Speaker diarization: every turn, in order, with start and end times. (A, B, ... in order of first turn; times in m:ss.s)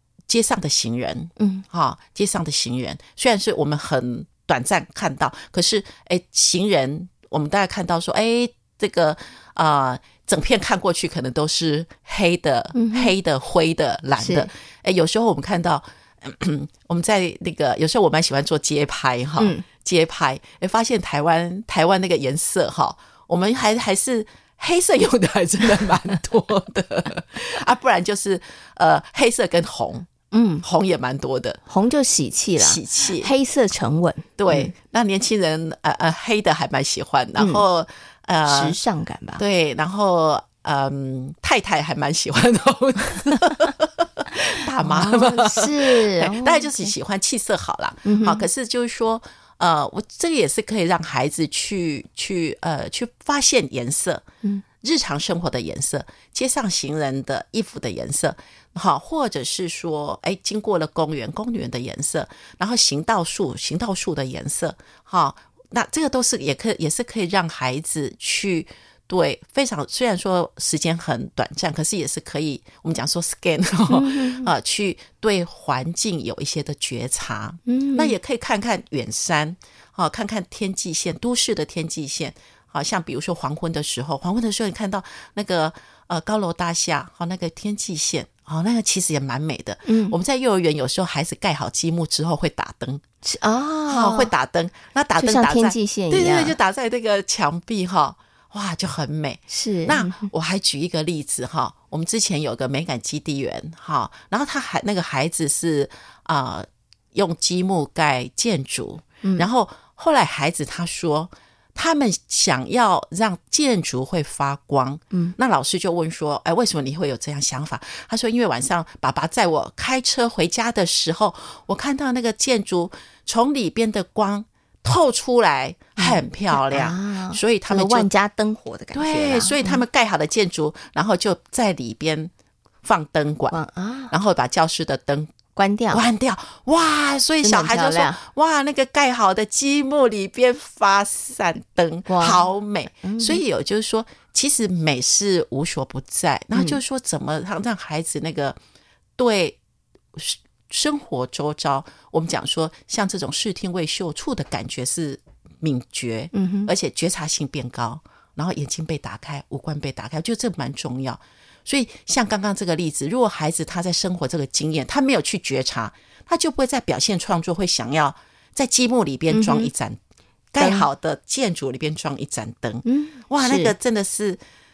0:00.3-0:30.1 A
0:01.4-0:01.6 B
0:12.8-0:13.1 B
0:14.2-0:14.5 B
0:19.4-0:19.6 B
0:30.3-0:30.6 B
0:30.6-0:31.6 A
0:31.7-0:34.7 B
0:32.6-0:33.3 A
0:34.4-0:38.8 A
0:37.4-0:37.6 B
0:38.4-0:39.4 B
0:39.4-0:54.2 A
0:44.8-0:46.9 B
0:48.0-0:48.4 B
0:54.8-1:33.0 A
1:13.9-1:14.5 B
1:17.7-1:18.2 B
1:29.9-1:30.2 B
1:33.2-1:34.3 B
1:33.9-2:08.1 A
1:35.2-1:36.6 B
1:39.5-1:40.3 B
2:06.0-2:09.8 B
2:08.9-2:12.3 A
2:12.8-2:13.6 A
2:13.5-2:14.1 B
2:14.1-2:15.3 A
2:15.6-2:16.0 B
2:15.9-2:28.6 A
2:17.4-2:18.2 B
2:22.1-2:22.4 B
2:23.0-2:23.4 B
2:29.2-2:29.6 A
2:30.1-2:50.0 A
2:36.3-2:36.7 B
2:49.3-2:49.7 B
2:50.5-2:54.4 A
2:50.6-2:50.9 B
2:52.9-2:53.7 B